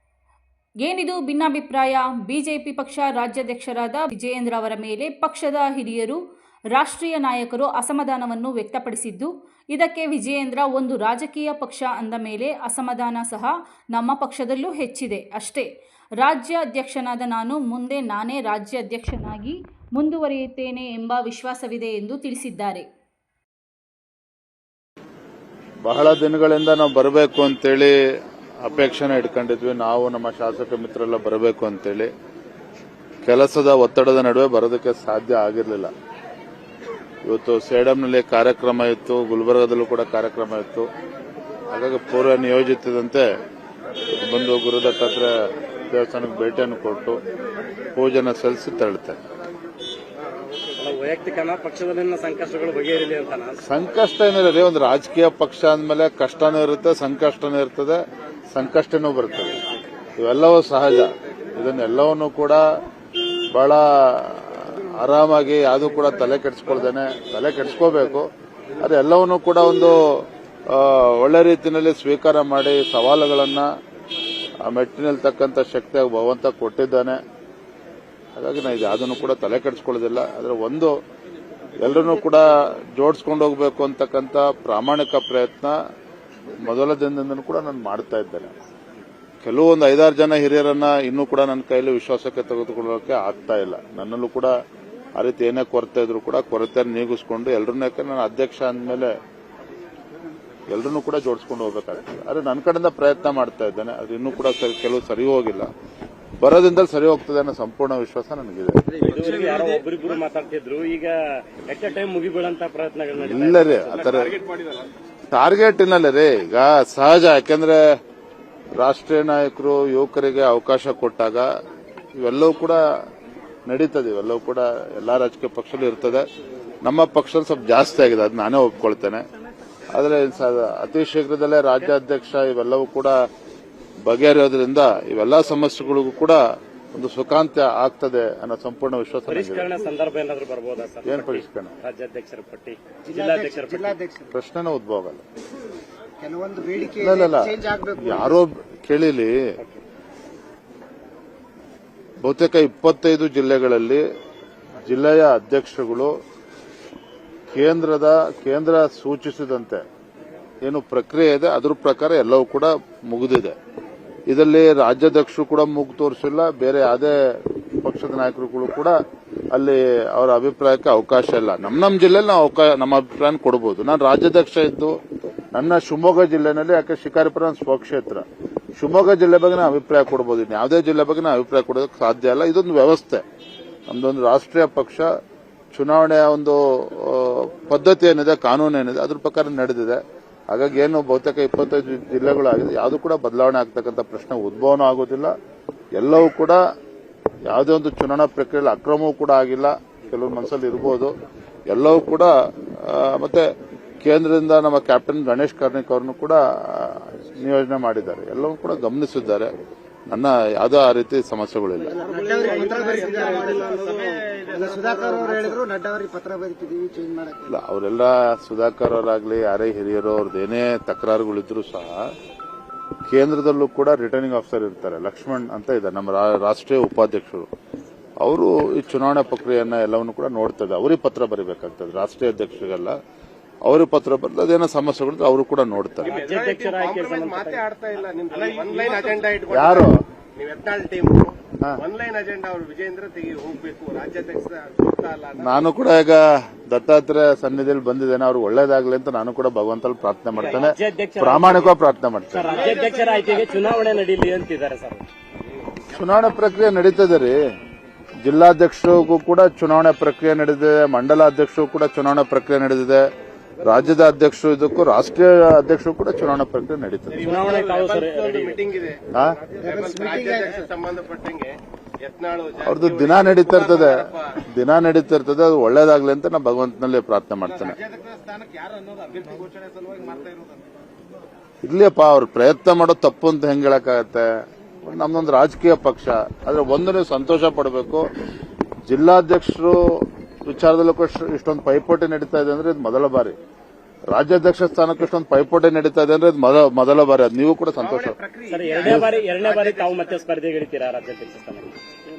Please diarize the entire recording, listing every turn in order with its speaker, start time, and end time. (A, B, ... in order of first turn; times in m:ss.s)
0:00.8-0:06.2 A
0:06.7-0:15.7 A
0:16.2-0:22.9 A
0:25.8-0:28.0 B
0:28.6-0:32.1 B
0:33.2-0:35.9 B
0:37.2-0:40.9 B
0:41.7-0:43.3 B
0:44.1-0:45.3 B
0:45.9-0:47.2 B
0:48.0-0:49.2 B
0:50.8-0:53.6 C
0:53.6-0:59.6 B
1:00.2-1:02.6 B
1:03.5-1:13.7 B
1:14.6-1:17.2 B
1:18.4-1:20.9 B
1:21.8-1:25.8 B
1:26.6-1:28.5 B
1:29.4-1:34.5 B
1:35.2-1:39.1 B
1:40.7-1:45.7 B
1:46.4-1:48.8 B
1:49.0-1:54.3 C
1:53.2-1:54.4 B
1:55.3-1:57.9 B
1:58.8-2:01.5 B
2:02.2-2:02.8 B
2:03.7-2:06.3 B
2:06.8-2:09.2 B
2:09.9-2:13.2 B
2:14.0-2:16.4 B
2:16.9-2:19.7 B
2:19.3-2:24.0 C
2:21.0-2:21.8 B
2:23.1-2:24.3 D
2:24.3-2:25.2 B
2:26.2-2:28.4 D
2:27.0-2:29.4 B
2:32.2-2:34.0 B
2:34.8-2:36.1 B
2:37.5-2:39.8 B
2:40.6-2:43.6 B
2:44.3-2:49.0 B
2:49.5-2:55.0 B
2:55.5-2:58.2 B
2:58.8-3:03.2 B
3:03.9-3:05.1 B
3:05.7-3:15.3 B
3:16.0-3:16.6 B
3:17.5-3:21.1 B
3:21.7-3:23.5 B
3:24.0-3:29.5 B
3:30.1-3:32.1 B
3:32.0-3:37.5 D
3:32.1-3:35.5 E
3:37.5-3:42.1 B
3:43.1-3:47.5 B
3:48.2-3:53.0 B
3:53.6-3:56.2 B
3:56.0-3:57.7 C
3:56.1-4:05.6 E
3:58.4-3:59.0 D
3:59.5-4:00.0 B
4:05.4-4:12.6 B
4:10.4-4:11.8 C
4:12.3-4:15.1 C
4:12.5-4:13.7 E
4:15.9-4:17.4 B
4:18.2-4:23.1 B
4:23.6-4:27.2 B
4:27.2-4:29.0 E
4:27.2-4:28.7 C
4:29.1-4:29.4 B
4:29.6-4:34.3 E
4:29.6-4:30.7 D
4:32.6-4:37.8 B
4:37.6-4:40.6 E
4:41.6-4:48.1 B
4:48.9-4:53.4 B
4:54.1-4:58.2 B
4:57.8-5:00.2 E
4:58.5-5:01.8 C
4:58.8-4:59.1 B